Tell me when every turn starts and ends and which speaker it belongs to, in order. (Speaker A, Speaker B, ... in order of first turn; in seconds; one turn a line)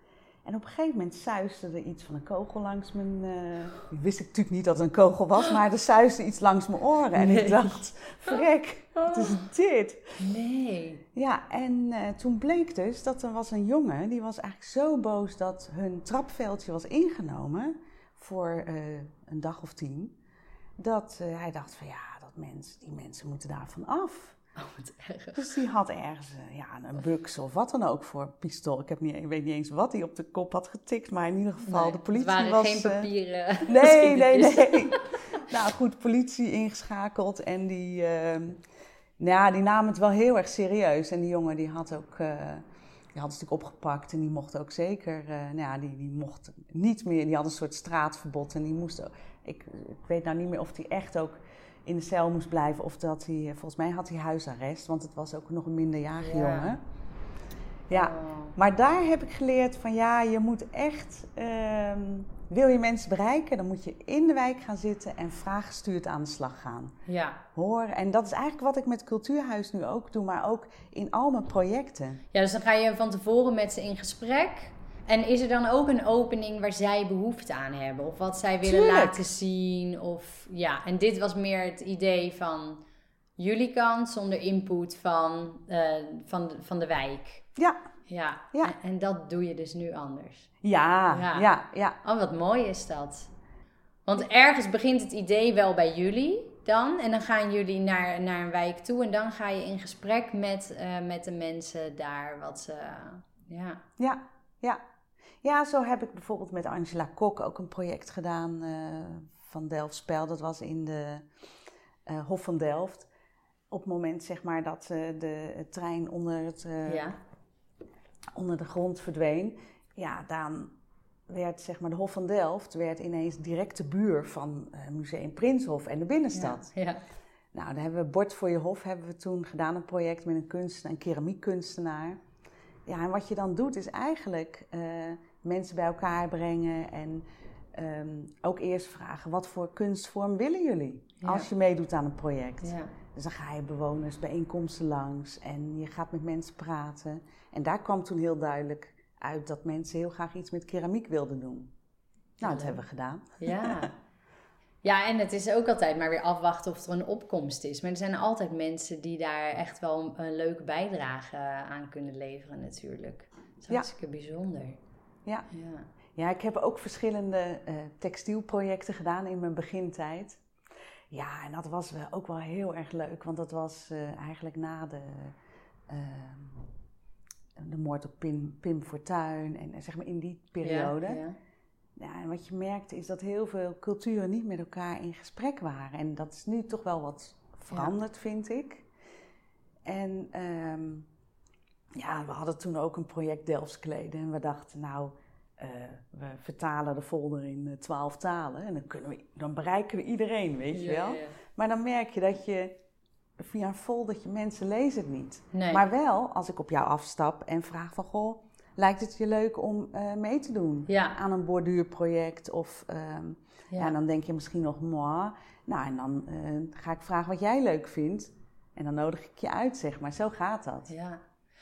Speaker A: 0.4-10.2
Speaker B: 7.1-7.8
Speaker B: 9.0-9.3
Speaker B: 10.2-11.0
Speaker A: 11.1-20.1
Speaker A: 20.8-24.4
Speaker B: 24.6-25.6
Speaker A: 25.4-33.1
Speaker B: 31.6-35.4
Speaker A: 33.6-38.6
Speaker A: 39.2-56.8
Speaker B: 56.2-56.8
Speaker A: 57.9-66.9
Speaker B: 57.9-58.6
Speaker B: 67.0-67.4
Speaker A: 67.5-72.2
Speaker B: 72.3-82.8
Speaker A: 78.6-79.2
Speaker B: 83.4-87.4
Speaker B: 88.1-90.5
Speaker A: 90.6-92.0
Speaker B: 91.1-91.5
Speaker B: 92.0-93.3
Speaker B: 94.0-103.8
Speaker A: 104.0-104.8
Speaker A: 105.4-111.3
Speaker A: 112.0-113.1
Speaker A: 113.7-117.1
Speaker B: 116.8-117.2
Speaker A: 118.3-120.7
Speaker A: 121.3-126.7
Speaker B: 126.3-127.0
Speaker A: 127.5-132.2
Speaker A: 132.9-151.7
Speaker B: 141.2-141.5
Speaker B: 142.6-142.9
Speaker A: 152.4-153.9
Speaker B: 152.4-152.8
Speaker B: 153.4-153.9
Speaker B: 154.8-164.8
Speaker B: 165.5-165.9
Speaker A: 166.1-170.4
Speaker A: 171.1-175.3
Speaker A: 175.9-176.7
Speaker A: 177.6-181.2
Speaker B: 180.6-181.3
Speaker A: 182.0-188.9
Speaker B: 187.7-187.9
Speaker A: 189.8-191.1
Speaker A: 191.9-202.8
Speaker B: 200.7-201.3
Speaker A: 203.4-220.9
Speaker B: 205.5-205.8
Speaker B: 210.9-211.2
Speaker B: 213.7-213.9
Speaker B: 220.9-221.2